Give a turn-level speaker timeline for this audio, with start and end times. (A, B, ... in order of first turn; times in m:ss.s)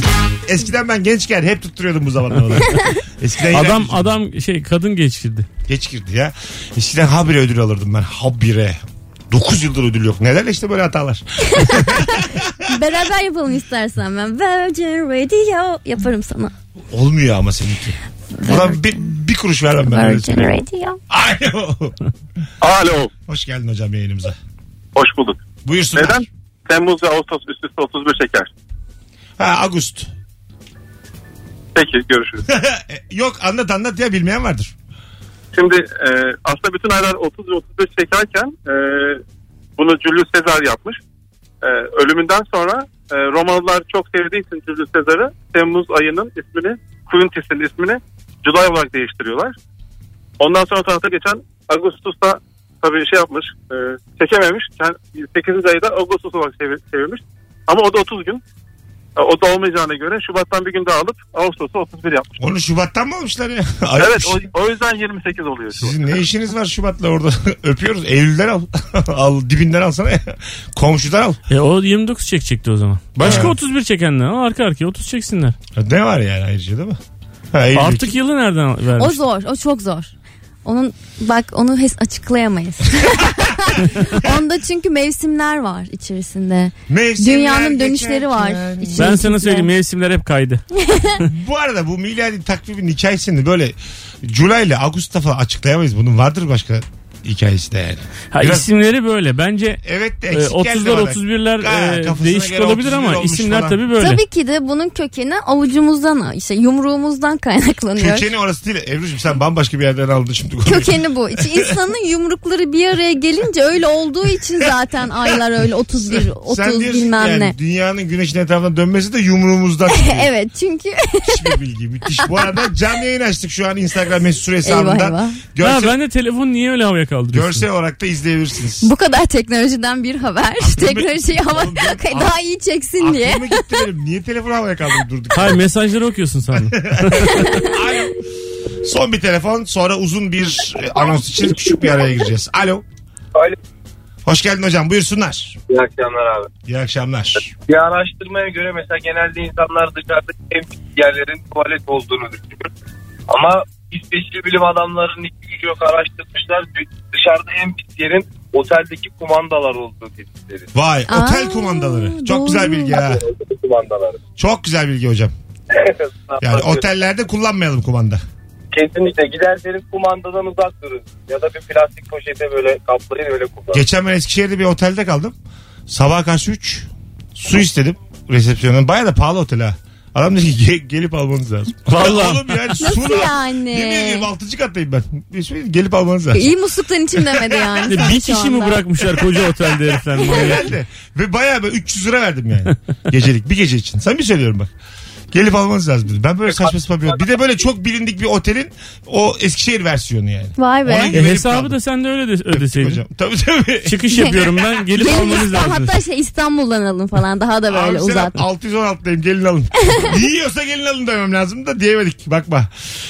0:00.4-0:04.1 A
0:03.5-0:05.5 B
0:05.7-0:12.4 A
0:11.6-0:16.5 C
0:16.9-0:20.6 A
0:18.4-0:18.8 C
0:19.8-0:21.0 C
0:21.1-0:22.0 A
0:22.6-0:23.1 D
0:23.3-0:24.3 A
0:25.0-0:25.4 D
0:25.6-0:26.2 A
0:26.0-0:28.5 D
0:29.4-0:30.1 A
0:31.8-0:32.4 D
0:32.5-0:34.7 A
0:35.5-0:39.2 D
0:39.8-0:41.0 D
0:41.6-0:49.6 D
0:50.4-0:58.4 D
0:59.2-1:02.3 D
1:02.4-1:04.4 A
1:04.0-1:06.0 D
1:05.7-1:11.4 A
1:11.5-1:15.6 B
1:13.2-1:13.6 A
1:15.8-1:17.0 A
1:17.5-1:18.1 A
1:17.7-1:19.2 B
1:19.0-1:20.1 C
1:20.6-1:29.7 C
1:26.9-1:29.1 A
1:29.0-1:30.6 B
1:30.8-1:31.2 C
1:31.3-1:38.7 A
1:38.3-1:44.2 B
1:39.8-1:43.8 A
1:44.0-1:48.3 C
1:48.0-1:51.7 A
1:50.6-1:57.6 C
1:55.9-2:00.3 A
1:59.9-2:01.6 C
2:01.3-2:06.0 A
2:04.6-2:05.4 C
2:05.6-2:07.6 B
2:07.3-2:08.9 A
2:08.8-2:13.8 C
2:10.6-2:12.4 A
2:13.0-2:15.6 A
2:15.3-2:17.6 B
2:16.5-2:18.2 A
2:18.8-2:22.8 A
2:24.2-2:25.6 A
2:25.7-2:26.5 E
2:26.6-2:27.5 A
2:27.7-2:32.7 E
2:33.3-2:40.7 E
2:40.7-2:43.2 A
2:41.1-2:43.0 C
2:42.9-2:44.2 E
2:44.4-2:45.3 A
2:45.7-2:46.9 E
2:46.4-2:48.2 A
2:48.7-2:53.8 E
2:53.7-2:55.3 A
2:55.9-3:06.5 A
3:01.9-3:02.8 B
3:02.8-3:04.3 C
3:06.3-3:08.8 C
3:07.2-3:08.1 A
3:07.9-3:10.7 B
3:10.1-3:14.7 A
3:15.3-3:21.9 A
3:20.6-3:21.2 C
3:21.1-3:23.0 B
3:22.5-3:24.8 A
3:23.8-3:26.0 B
3:25.0-3:28.4 C
3:27.7-3:32.7 A